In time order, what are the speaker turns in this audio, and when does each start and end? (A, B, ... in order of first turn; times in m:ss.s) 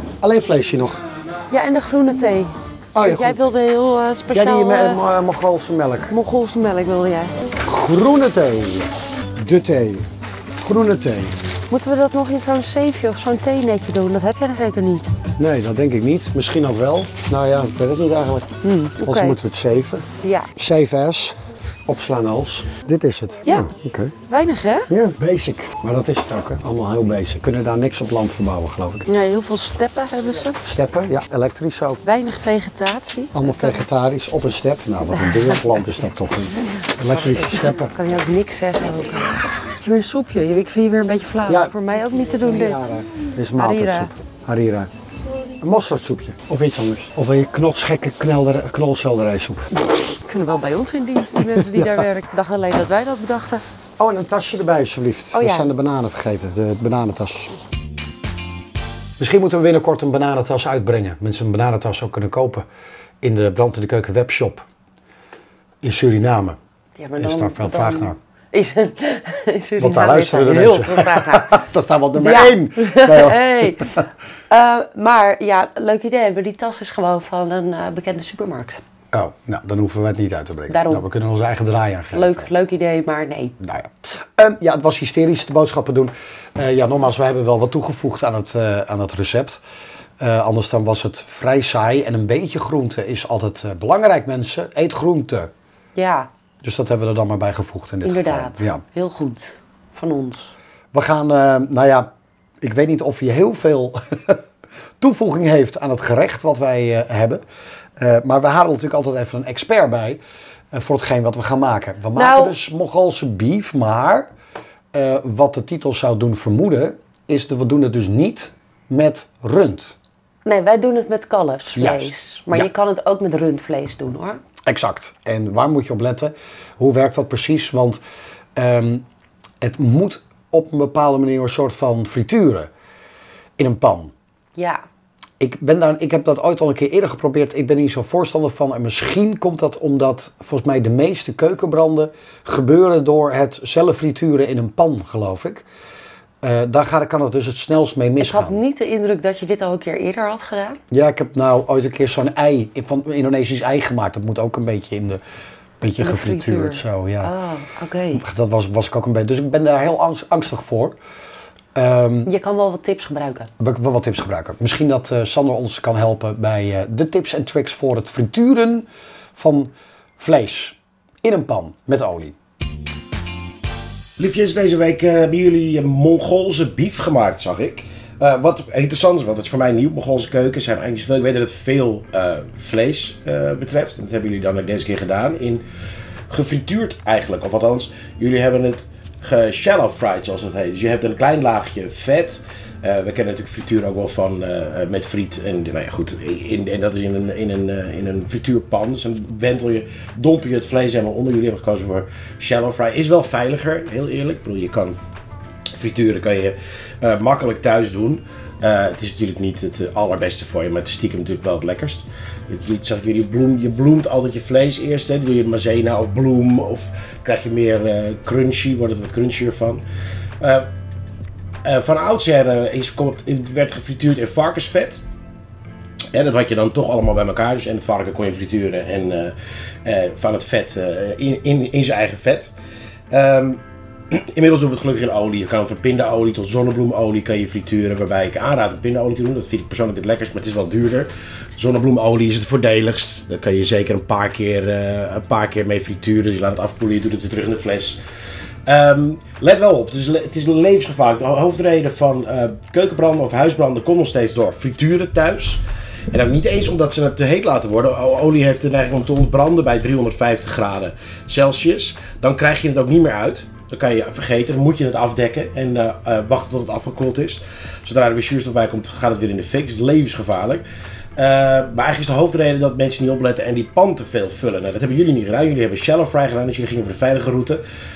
0:00.2-0:01.0 A
0:01.5-0:05.0 B
0:02.9-0:03.5 A
0:04.3-0:06.1 A
0:06.1-0:07.3 B
0:07.6-0:10.1 A
0:10.6-0:11.4 A
0:11.7-0:15.1 B
0:15.4-0:24.2 A
0:18.6-0:19.4 B
0:20.2-0:20.5 B
0:24.3-0:24.9 B
0:24.9-0:29.1 A
0:29.1-0:30.6 B
0:30.6-0:32.0 A
0:32.0-0:33.8 B
0:33.3-0:37.9 A
0:35.1-0:35.6 B
0:36.8-0:42.9 B
0:41.5-0:41.7 A
0:42.3-0:44.9 A
0:43.6-0:44.1 B
0:45.6-0:49.7 A
0:50.1-0:53.6 B
0:51.4-0:52.0 A
0:54.0-0:57.6 A
0:55.3-0:55.7 B
0:59.2-1:02.6 A
1:03.2-1:04.6 A
1:05.8-1:06.6 A
1:07.0-1:11.6 B
1:07.2-1:08.2 A
1:09.8-1:14.0 A
1:12.2-1:18.8 B
1:19.1-1:22.5 A
1:20.7-1:21.0 B
1:22.1-1:23.6 B
1:23.6-1:29.6 A
1:30.2-1:35.5 A
1:36.0-1:36.3 B
1:36.6-1:38.8 A
1:38.0-1:40.5 B
1:40.9-1:42.1 A
1:42.6-1:44.4 A
1:45.0-1:47.4 A
1:48.0-1:50.2 A
1:50.7-1:54.3 A
1:52.2-1:52.6 B
1:54.9-2:00.0 A
2:00.4-2:04.4 B
2:01.8-2:02.7 A
2:04.7-2:08.0 A
2:08.6-2:09.0 A
2:09.6-2:12.7 A
2:13.6-2:14.1 A
2:14.6-2:14.8 B
2:15.4-2:25.6 A
2:26.4-2:28.6 A
2:28.2-2:30.8 B
2:30.9-2:35.2 A
2:35.8-2:37.3 A
2:36.0-2:38.2 B
2:38.2-2:41.0 A
2:41.8-2:42.3 A
2:42.2-2:43.5 B
2:43.6-2:52.4 A
2:54.2-3:05.6 C
3:06.3-3:25.0 C
3:25.7-3:39.8 C
3:40.4-3:40.7 C
3:41.6-3:45.0 C
3:46.1-3:52.5 C
3:53.1-4:08.0 C
4:08.7-4:30.6 C
4:31.2-4:37.6 C